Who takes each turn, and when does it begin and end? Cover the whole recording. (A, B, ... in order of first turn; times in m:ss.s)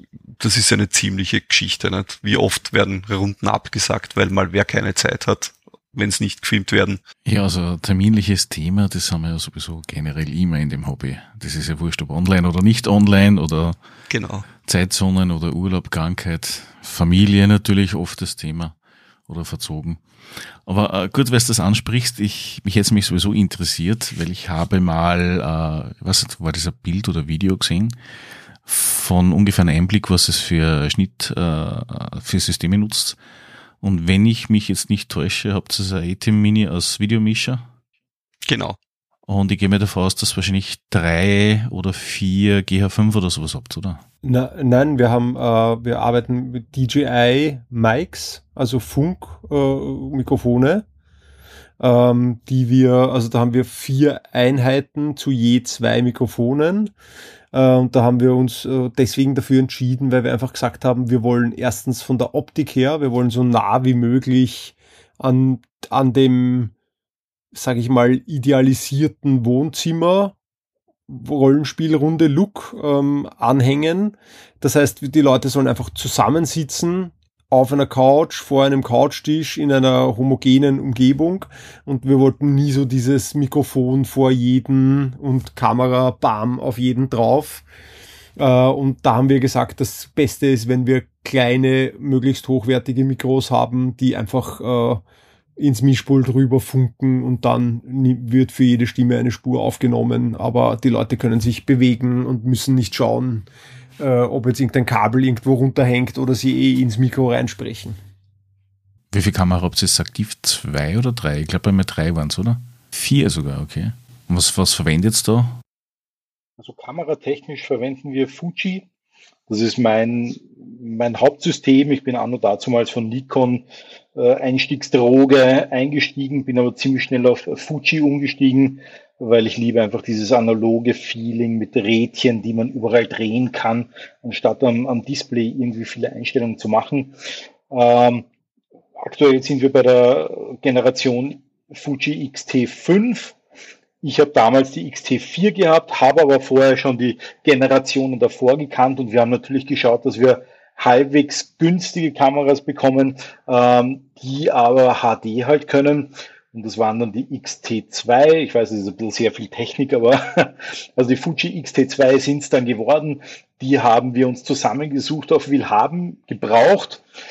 0:00.4-0:07.0 A
0:07.2-0:13.8 B
0:14.1-0:14.5 A
0:14.6-0:18.8 B
0:19.3-0:28.0 B
0:28.6-0:33.2 B
0:33.8-0:37.7 B
0:38.5-0:38.8 A
0:39.3-0:44.0 B
0:44.2-0:50.8 C
0:51.8-0:56.9 C
0:57.5-1:06.7 C
1:07.5-1:10.3 C
1:11.1-1:27.6 C
1:28.4-1:35.0 C
1:35.6-1:43.5 C
1:44.0-1:48.0 C
1:49.1-1:55.6 B
1:56.6-1:58.9 D
1:59.5-2:17.2 D
2:17.7-2:18.2 D
2:19.0-2:23.4 D
2:24.0-2:47.0 D